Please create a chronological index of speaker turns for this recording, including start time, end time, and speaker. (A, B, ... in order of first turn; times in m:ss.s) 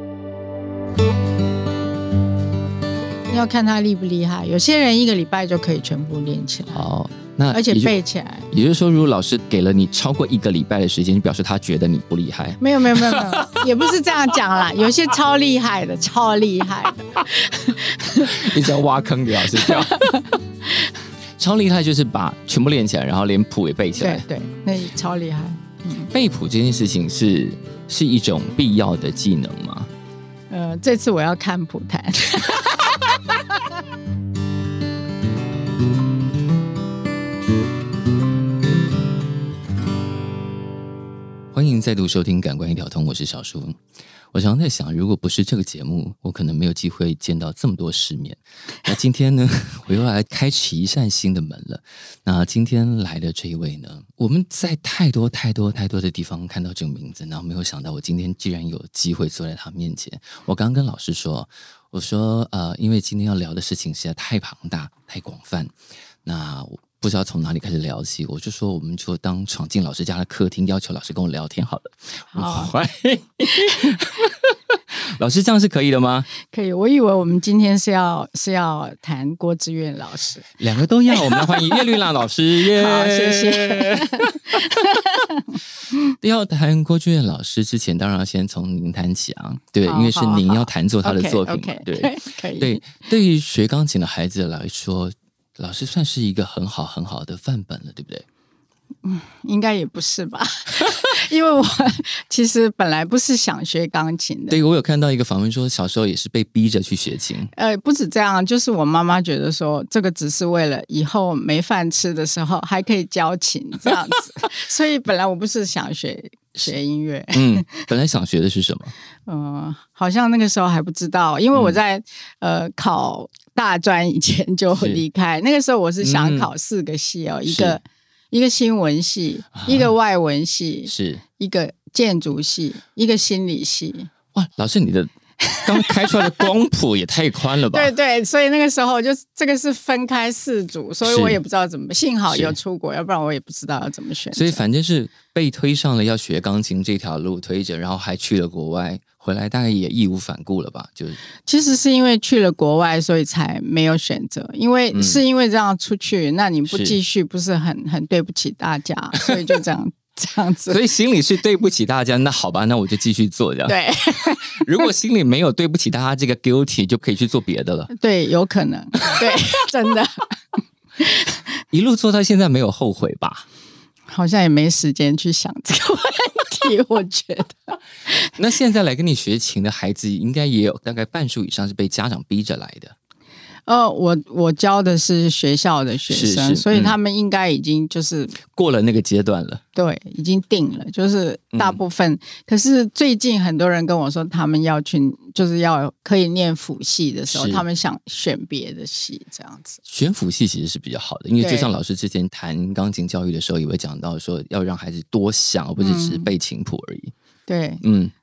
0:03.3-0:06.8 A
0:06.7-0:07.9 B
0:07.5-0:08.5 A
0:08.5-0:13.6 B
0:12.6-0:18.5 A
0:18.2-0:20.2 B
0:19.5-0:20.4 A
0:21.4-0:24.2 B
0:24.0-0:26.1 A
0:26.1-0:29.9 B
0:30.5-0:33.0 A
0:41.5-0:43.8 B
0:44.3-1:05.7 B
1:06.2-1:16.3 B
1:12.3-1:12.7 A
1:16.4-1:20.5 A
1:20.6-1:24.7 B
1:21.1-1:21.8 A
1:22.7-1:25.4 A
1:26.2-1:38.2 B
1:29.8-1:32.8 A
1:39.0-1:44.6 A
1:44.5-1:47.5 B
1:47.5-1:57.9 A
1:57.3-1:58.9 B
1:59.3-2:14.1 A
2:04.7-2:05.0 B
2:06.0-2:06.5 B
2:07.5-2:07.8 B
2:09.6-2:09.9 B
2:10.9-2:11.2 B
2:14.3-2:15.1 B
2:15.4-2:16.4 A
2:15.6-2:17.9 B
2:17.7-2:24.6 A
2:21.0-2:21.4 B
2:22.3-2:22.6 B
2:24.3-2:31.2 B
2:31.4-2:40.8 A
2:34.9-2:35.2 B
2:36.7-2:37.0 B
2:40.7-2:47.9 B
2:43.7-2:44.8 A
2:47.9-2:50.2 A
2:49.0-2:49.4 B
2:51.0-2:51.4 A
2:51.7-2:53.4 B
2:54.1-2:58.3 A
2:58.4-3:02.9 B
3:03.7-3:08.4 A
3:06.1-3:06.9 B
3:08.5-3:09.6 B
3:09.7-3:19.8 A
3:17.3-3:17.6 B
3:19.9-3:27.1 B
3:21.4-3:21.7 A
3:25.8-3:26.3 A
3:27.5-3:27.8 A
3:27.8-3:28.1 B